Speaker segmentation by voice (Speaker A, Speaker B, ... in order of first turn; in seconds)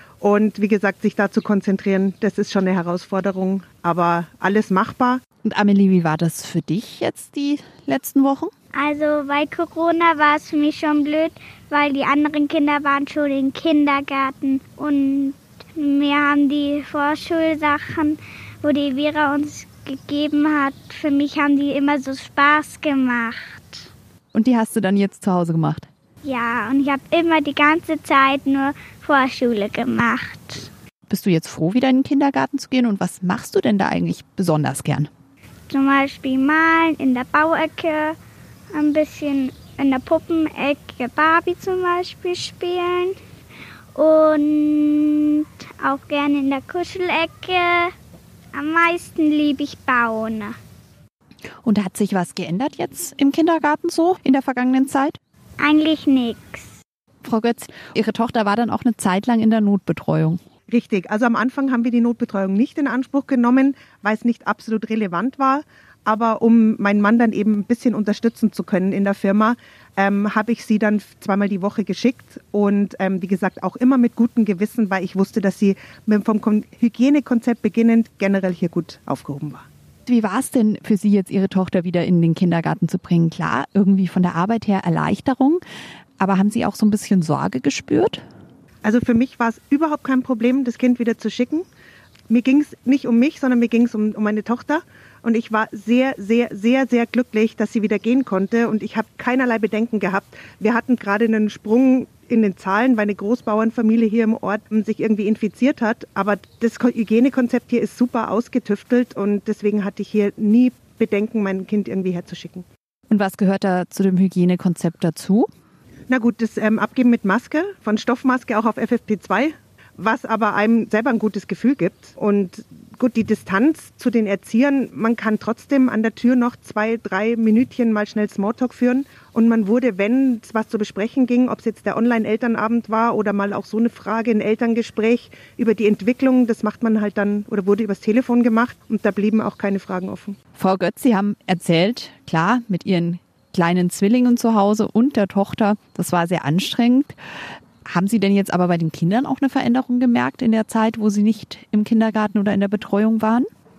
Speaker A: 0.2-5.2, 60.7-79.7, 88.8-91.7, 92.3-112.7, 116.1-140.4
Speaker B: 5.4-8.5, 24.3-25.9, 31.1-35.1, 51.6-55.2, 57.2-60.4, 80.1-85.6, 86.2-88.2, 113.1-115.5, 140.6-147.2, 147.8-153.5
Speaker C: 8.8-23.9, 26.2-30.7, 35.7-38.2, 38.7-43.2, 44.0-47.9, 48.5-50.6, 55.6-56.8